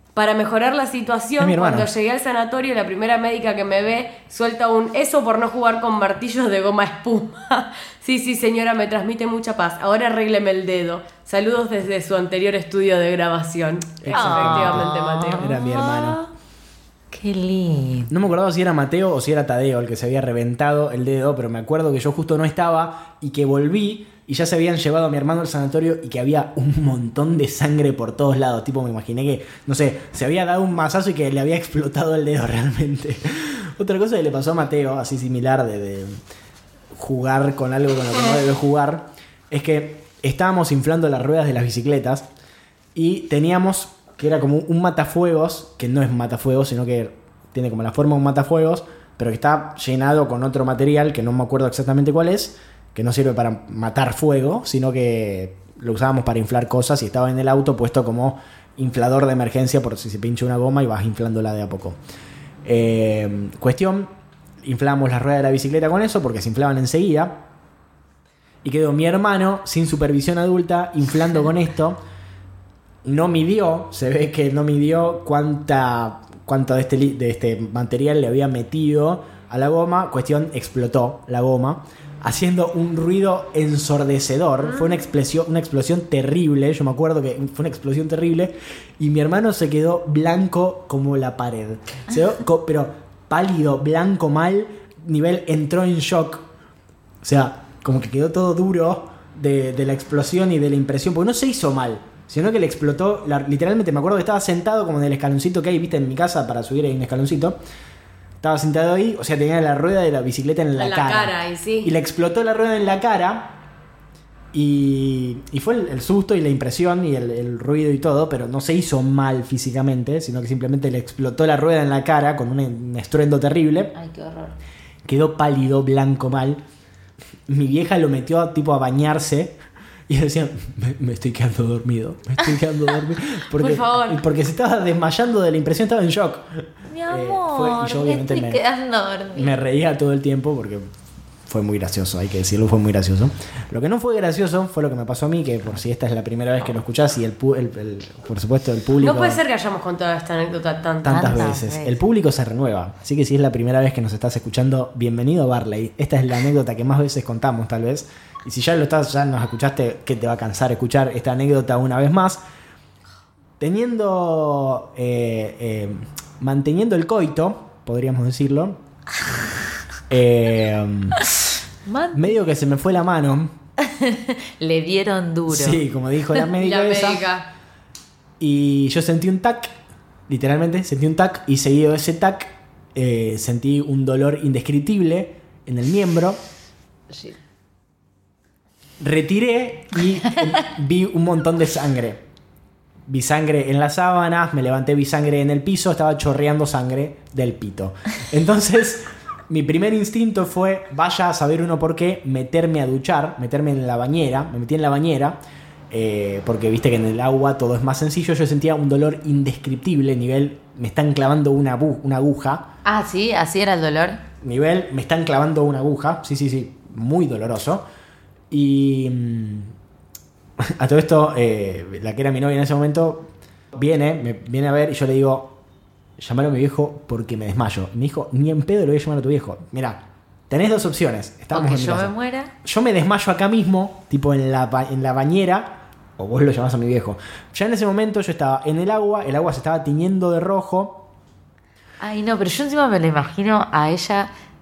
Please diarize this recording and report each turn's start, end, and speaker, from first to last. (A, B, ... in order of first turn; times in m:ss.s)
0:00.1-0:15.5 A
0:01.4-0:01.9 B
0:14.0-0:16.2 B
0:14.1-0:16.3 C
0:17.1-0:18.1 C
0:18.1-0:36.2 B
0:36.9-0:42.3 B
0:42.9-1:02.0 B
1:02.6-1:04.1 B
1:04.6-1:07.4 B
1:08.6-1:12.0 B
1:13.0-1:36.5 B
1:37.2-1:47.6 B
1:48.4-1:53.6 B
1:50.8-1:51.9 A
1:54.5-2:03.9 B
2:03.9-2:04.6 C
2:05.0-2:06.6 B
2:07.5-2:09.6 B
2:10.1-2:18.6 B
2:13.6-2:14.2 A
2:16.9-2:19.5 C
2:19.3-2:20.9 B
2:21.4-2:29.4 B
2:28.9-2:31.5 A
2:31.0-2:42.4 B
2:31.1-2:32.0 C
2:43.6-2:48.8 B
2:50.1-2:51.2 B
2:51.8-2:52.3 C
2:52.1-2:53.5 B
2:53.8-2:55.8 C
2:55.5-2:57.2 B
2:56.6-2:57.5 A
2:58.4-2:59.7 B
3:00.3-3:06.4 B
3:09.0-3:12.2 B
3:13.1-3:25.4 B
3:25.9-3:32.7 B
3:32.8-3:34.2 C
3:34.4-3:37.8 B
3:38.5-3:39.7 B
3:40.6-3:45.6 B
3:46.2-4:01.1 B
3:51.5-3:52.5 C
4:02.0-4:04.3 C